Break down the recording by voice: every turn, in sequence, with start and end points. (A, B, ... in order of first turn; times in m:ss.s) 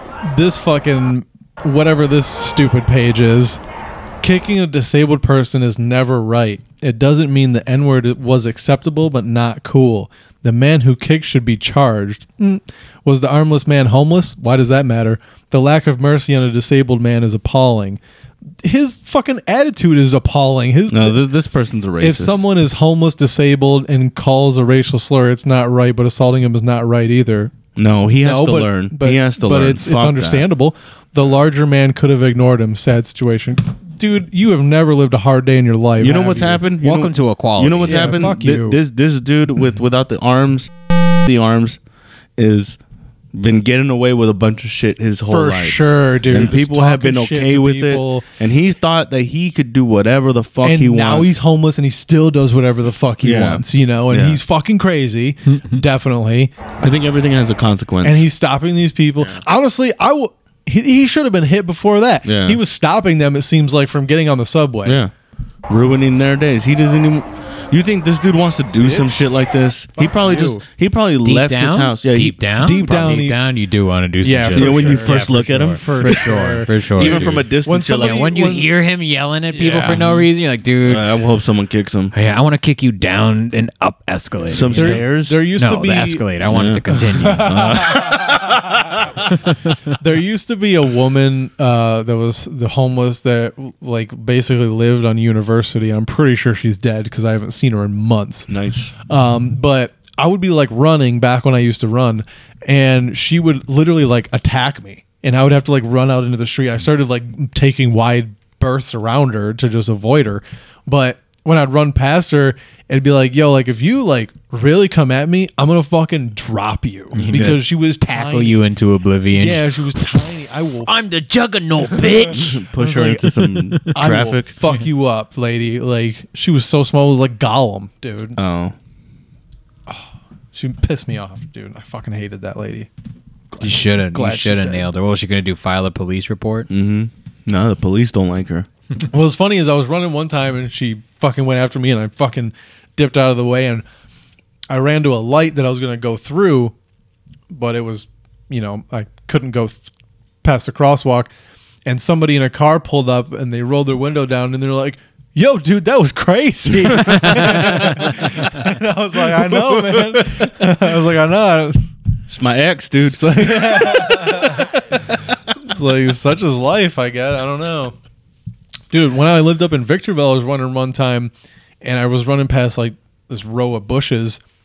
0:00.2-0:03.6 A
0:04.2-0:18.0 A
0:18.6-0:21.2 A
0:20.9-0:22.4 B
0:22.0-0:27.5 A
0:27.8-0:30.5 B
0:28.2-0:36.6 A
0:36.0-0:40.7 B
0:36.8-0:38.2 C
0:37.8-0:38.8 A
0:41.2-0:41.8 B
0:42.4-0:42.8 B
0:43.3-0:51.3 B
0:45.2-0:48.2 A
0:50.6-0:56.5 A
0:53.2-0:54.4 B
0:55.5-0:55.8 C
0:56.8-0:58.3 B
0:58.0-1:05.0 A
1:02.2-1:02.6 B
1:04.8-1:05.1 B
1:05.7-1:12.4 B
1:08.8-1:09.1 A
1:10.0-1:10.6 A
1:11.2-1:21.0 C
1:12.6-1:13.4 A
1:14.2-1:18.7 A
1:14.5-1:16.3 B
1:16.9-1:18.6 B
1:19.5-1:20.2 A
1:19.8-1:20.2 B
1:20.8-1:22.1 B
1:22.1-1:27.5 C
1:24.4-1:25.4 B
1:24.7-1:26.2 A
1:26.5-1:29.3 B
1:27.0-1:28.4 A
1:29.4-1:29.7 C
1:30.0-1:38.5 A
1:38.5-1:38.9 B
1:39.1-1:58.6 A
1:57.1-2:00.0 C
1:59.3-2:00.9 A
2:00.8-2:02.6 C
2:02.3-2:04.5 B
2:02.8-2:03.4 A
2:03.9-2:08.4 A
2:08.4-2:08.7 B
2:10.5-2:12.9 A
2:13.5-2:14.9 A
2:13.6-2:16.7 C
2:16.7-2:18.7 B
2:19.1-2:23.8 A
2:24.7-2:26.7 A
2:27.5-2:29.8 A
2:30.4-2:31.3 A
2:31.8-2:41.8 A
2:37.0-2:38.5 B
2:37.7-2:38.1 C
2:39.3-2:40.5 B
2:42.3-2:44.7 B
2:43.0-2:47.9 A
2:48.9-2:51.3 A
2:51.8-2:54.4 A